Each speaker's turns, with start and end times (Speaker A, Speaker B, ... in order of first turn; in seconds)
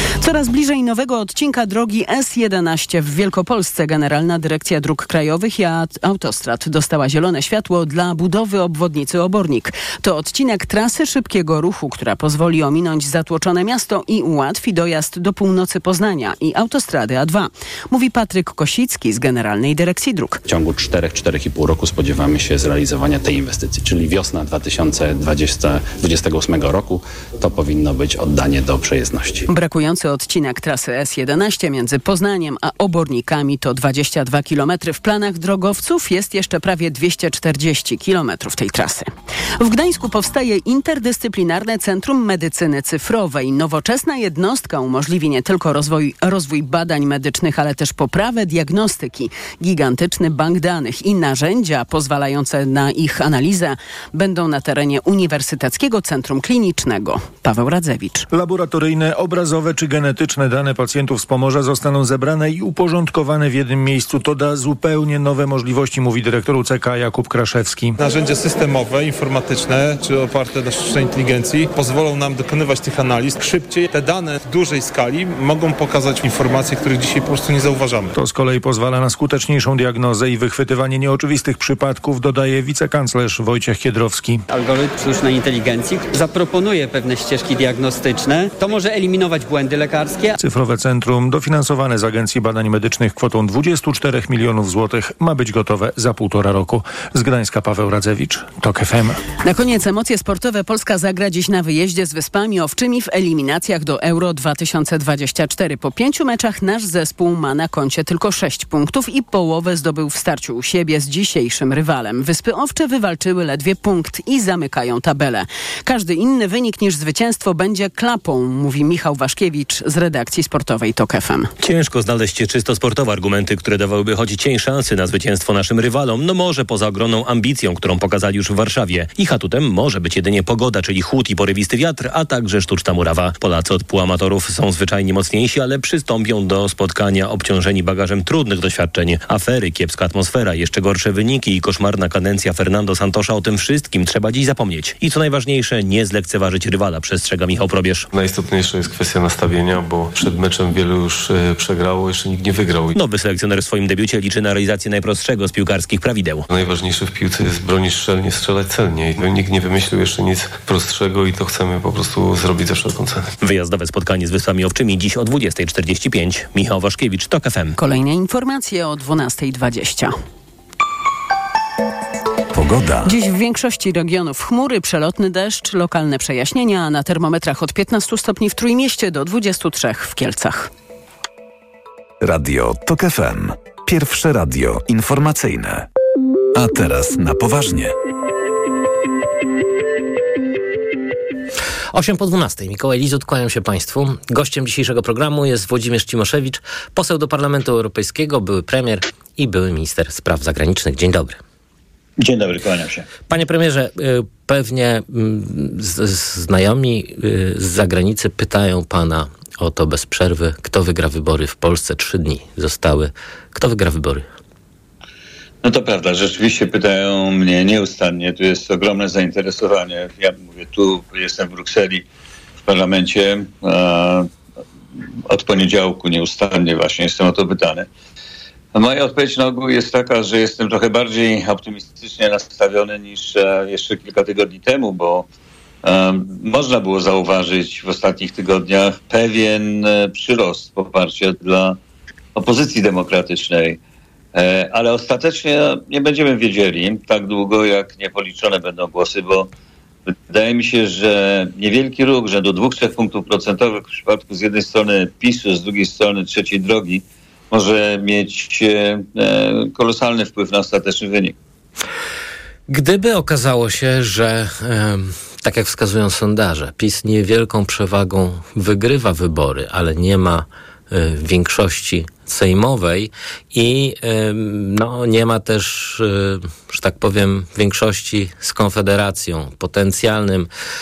Speaker A: 0.2-20.4, 29.5-58.3, 99.4-121.5, 167.8-170.1, 173.1-180.7
Speaker B: 20.4-29.4
Speaker C: 58.3-67.9, 78.1-84.4, 90.4-99.2
Speaker D: 68.0-78.1
Speaker E: 84.7-90.3
Speaker F: 121.6-148.1, 152.9-156.5, 163.4-167.8
Speaker G: 148.1-152.9, 156.5-163.3
Speaker H: 172.5-173.1, 182.2-185.9, 186.6-187.9
Speaker I: 191.9-201.4, 203.3-214.3, 262.7-280.5
Speaker J: 202.2-203.1, 215.6-222.1, 222.6-224.3, 225.3-227.9, 228.7-235.2, 235.8-241.8, 242.4-243.8, 244.3-249.5, 250.3-261.3